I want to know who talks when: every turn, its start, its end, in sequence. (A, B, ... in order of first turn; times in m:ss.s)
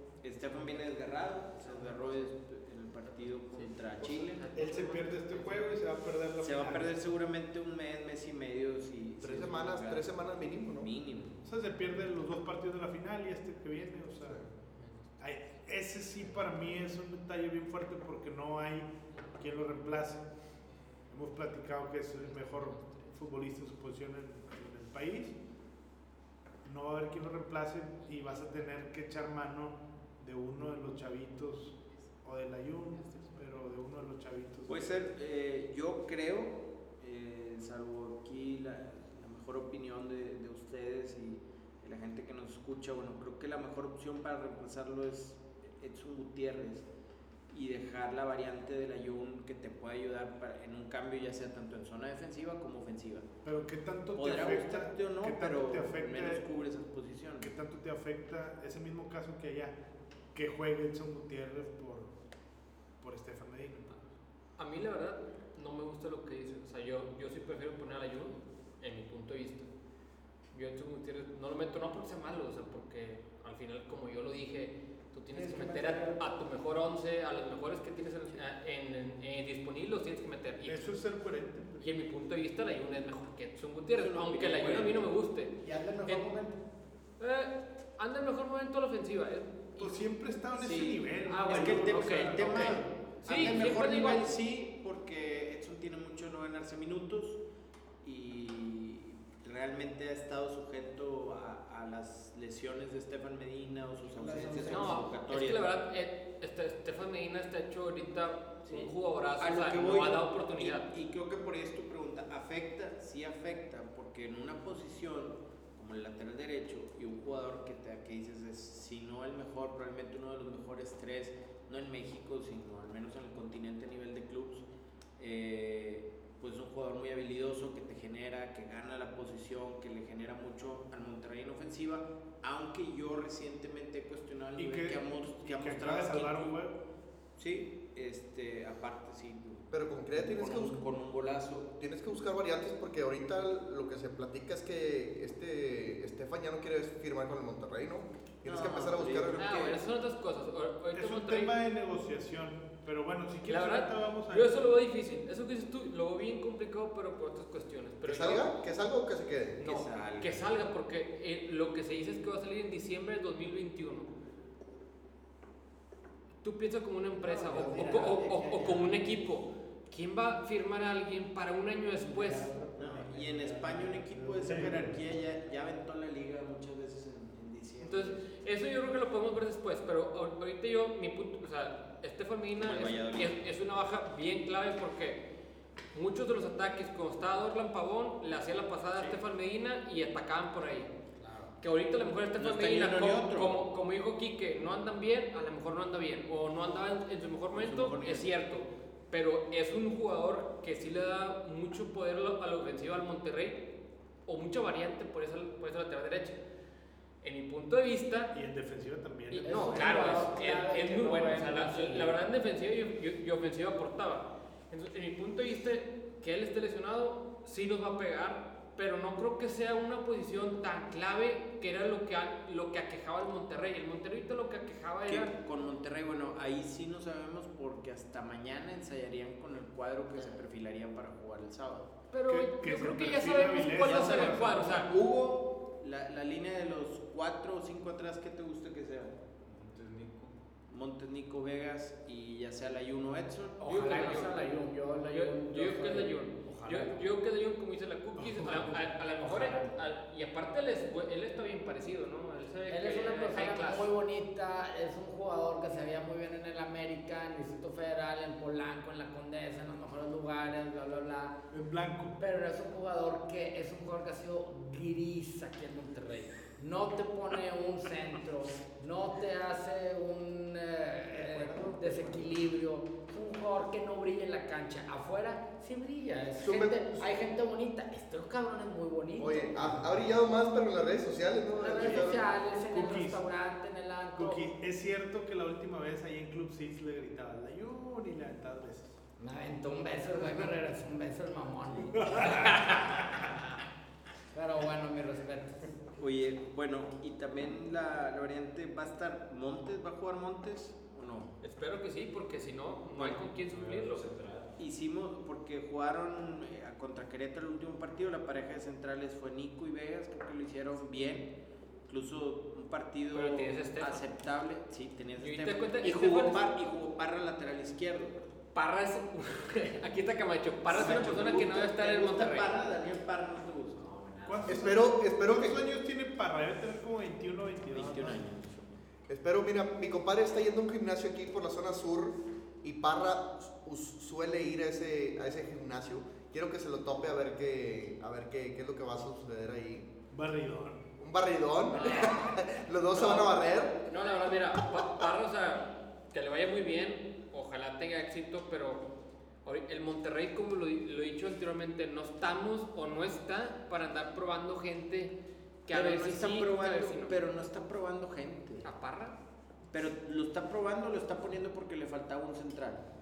0:00.2-0:04.4 A
0:03.5-0:05.7 B
0:04.5-0:06.9 C
0:06.4-0:11.4 A
0:09.2-0:10.9 D
0:11.4-0:14.4 C
0:14.8-0:15.1 B
0:15.2-0:20.2 C
0:21.1-0:25.4 C
0:22.2-0:23.1 B
0:26.6-0:35.0 C
0:33.0-0:33.3 B
0:34.7-0:46.9 A
0:47.5-0:53.3 A
0:53.4-0:56.4 C
0:54.2-0:57.5 A
0:57.4-0:59.8 C
1:00.3-1:02.1 C
1:03.0-1:04.1 C
1:04.6-1:09.7 B
1:10.5-1:20.9 B
1:15.3-1:16.2 E
1:20.6-1:21.9 C
1:21.8-1:26.3 B
1:23.9-1:25.1 A
1:25.6-1:26.6 E
1:27.2-1:30.0 B
1:29.8-1:33.7 C
1:30.6-1:37.4 A
1:31.2-1:34.3 B
1:38.0-1:45.7 A
1:44.1-1:45.1 E
1:44.7-1:50.9 B
1:48.6-2:04.6 A
2:05.2-2:16.6 A
2:14.6-2:16.8 C
2:17.4-2:21.7 A
2:19.7-2:20.8 D
2:21.8-2:29.4 D
2:28.4-2:29.8 A
2:29.4-2:31.5 B
2:30.9-2:34.5 C
2:33.5-2:38.5 B
2:38.0-2:39.6 D
2:39.6-2:40.6 A
2:39.6-2:44.1 B
2:46.4-2:52.5 B
2:47.2-2:49.1 E
2:52.0-2:55.0 E
2:52.8-2:58.2 A
2:54.5-2:54.9 C
2:57.8-3:05.2 B
3:02.6-3:03.4 A
3:05.9-3:10.9 B
3:11.2-3:11.5 F
3:11.6-3:23.6 B
3:12.4-3:13.6 A
3:17.5-3:18.3 A
3:24.3-3:26.4 B
3:27.2-3:28.3 B
3:28.3-3:30.2 C
3:29.3-3:45.3 B
3:29.4-3:32.2 F
3:45.1-3:51.9 A
3:52.1-3:54.9 B
3:52.3-3:54.9 C
3:53.8-3:59.1 A
3:59.4-4:00.4 G
4:00.7-4:03.6 A
4:03.6-4:07.0 F
4:03.6-4:04.4 B
4:05.1-4:13.9 B
4:08.2-4:08.9 C
4:09.2-4:09.7 F
4:12.7-4:21.4 F
4:21.5-4:22.2 C
4:22.2-4:40.0 F
4:31.1-4:32.4 E
4:36.4-4:37.0 D
4:39.2-4:42.3 D
4:41.6-4:44.4 F
4:41.8-4:43.2 C
4:44.2-4:49.0 C
4:49.2-4:53.0 F
4:52.0-4:53.0 C
4:54.3-4:55.7 F
4:56.0-5:01.3 A
5:01.4-5:04.1 B
5:03.0-5:03.2 A
5:03.4-5:04.5 G
5:04.6-5:11.3 A
5:11.9-5:18.2 A
5:13.1-5:14.0 B
5:15.2-5:16.4 B
5:18.5-5:22.5 B
5:20.7-5:23.8 A
5:23.7-5:24.7 G
5:24.2-5:28.2 C
5:24.5-5:25.6 D
5:27.7-5:28.7 A
5:29.1-5:39.9 D
5:40.1-5:40.9 C
5:41.0-5:43.8 D
5:41.7-5:42.2 B
5:43.0-5:43.3 B
5:43.8-5:48.9 B
5:49.4-5:55.1 B
5:55.7-5:57.2 B
5:55.7-5:58.7 A
5:58.6-5:59.2 B
5:59.7-6:02.8 A